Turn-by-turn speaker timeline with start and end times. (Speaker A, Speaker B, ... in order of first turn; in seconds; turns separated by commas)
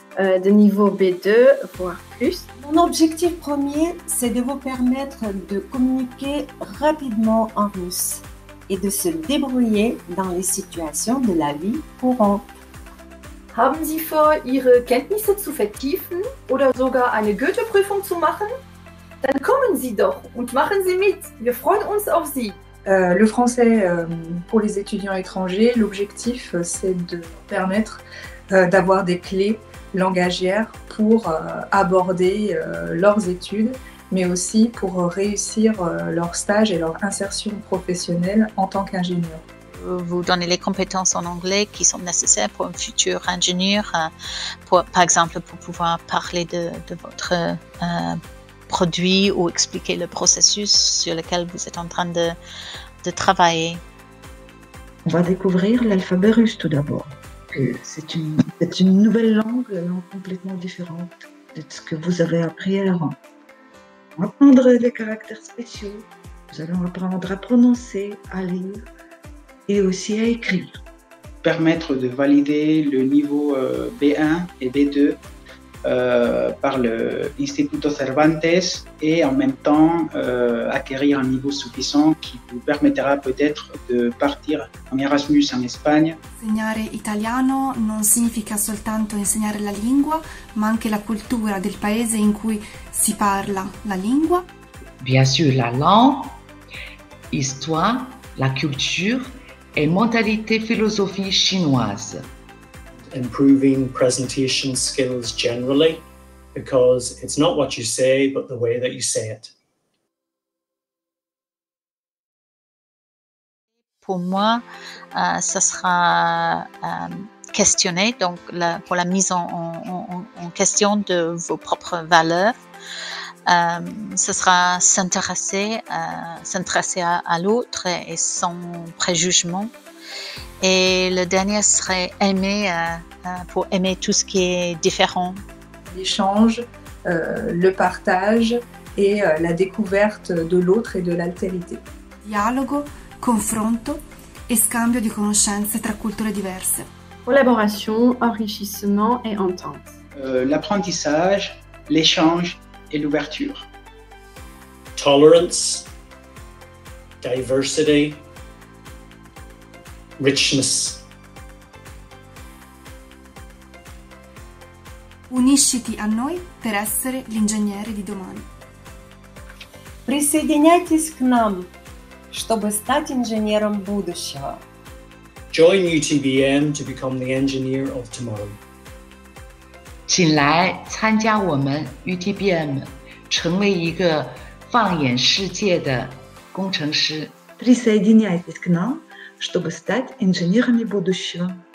Speaker A: 0.2-2.5, Speaker B: 2.6-12.5, Speaker C: 13.5-18.5, Speaker C: 19.2-22.6, Speaker D: 22.9-39.4, Speaker E: 39.7-44.1, Speaker E: 44.6-48.2, Speaker E: 48.7-52.4, Speaker E: 53.0-53.8, Speaker F: 55.0-63.2, Speaker F: 64.2-68.8, Speaker F: 69.7-70.8, Speaker G: 71.4-75.2, Speaker G: 75.8-86.2, Speaker H: 86.4-94.5, Speaker I: 95.0-96.4, Speaker I: 97.3-102.3, Speaker J: 103.0-109.5, Speaker E: 114.0-114.6, Speaker E: 115.1-122.5, Speaker E: 123.5-129.7, Speaker E: 130.6-135.4, Speaker D: 135.9-141.8, Speaker H: 142.2-146.8, Speaker A: 147.2-150.0, Speaker G: 150.1-153.7, Speaker J: 154.9-155.9, Speaker J: 157.2-158.2, Speaker J: 160.2-161.0, Speaker H: 165.3-168.5, Speaker B: 170.1-171.7, Speaker B: 172.3-174.6, Speaker J: 175.5-178.6, Speaker I: 180.1-187.4, Speaker F: 187.6-191.6